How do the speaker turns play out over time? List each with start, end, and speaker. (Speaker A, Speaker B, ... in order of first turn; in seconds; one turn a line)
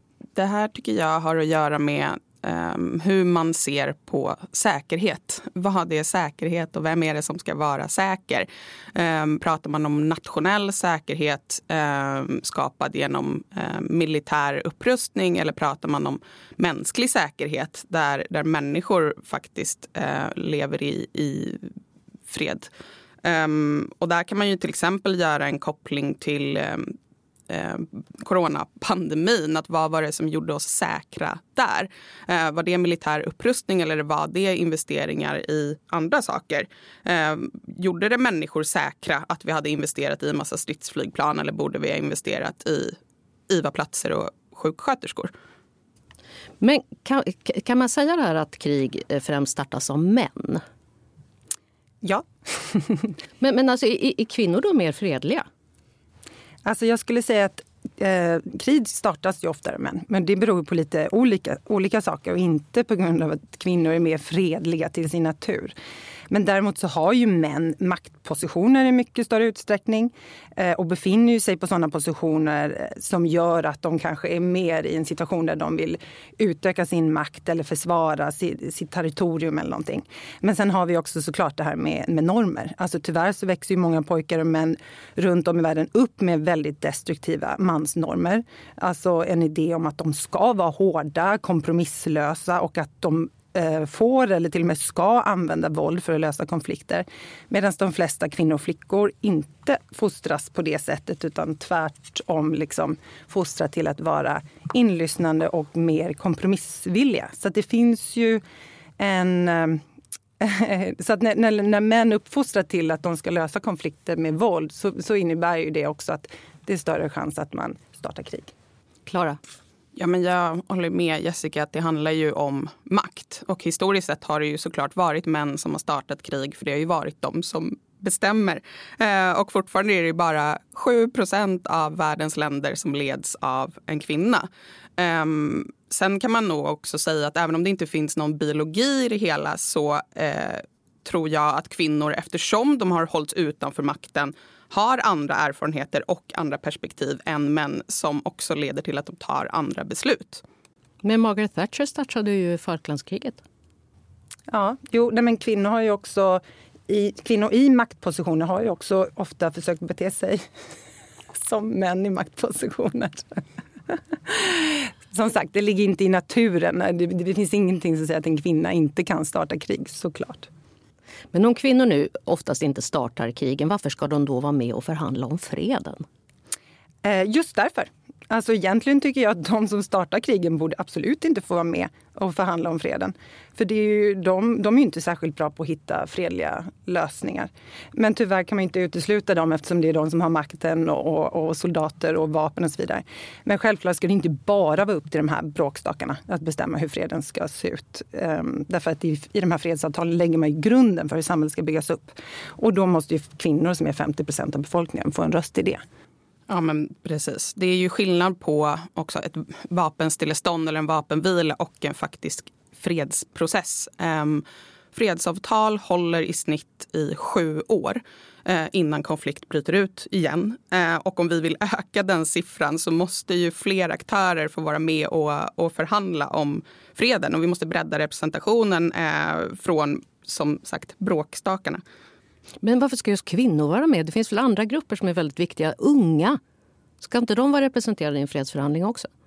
Speaker A: 0.3-21.7
Speaker A: 22.3-22.7
Speaker A: 23.2-26.9
Speaker A: 27.5-43.0
Speaker A: 43.5-45.3
Speaker B: 46.6-50.6
Speaker C: 52.0-53.1
Speaker B: 53.4-55.5
Speaker C: 56.6-65.7
Speaker C: 66.3-108.4
Speaker C: 109.0-109.8
Speaker C: 110.4-118.5
Speaker B: 119.1-119.4
Speaker A: 120.0-150.4
Speaker B: 151.0-153.4
Speaker C: 154.5-160.4
Speaker C: 161.3-170.5
Speaker B: 171.3-176.0
Speaker C: 177.0-205.8
Speaker A: 206.5-231.8
Speaker B: 232.6-236.4
Speaker B: 237.0-239.1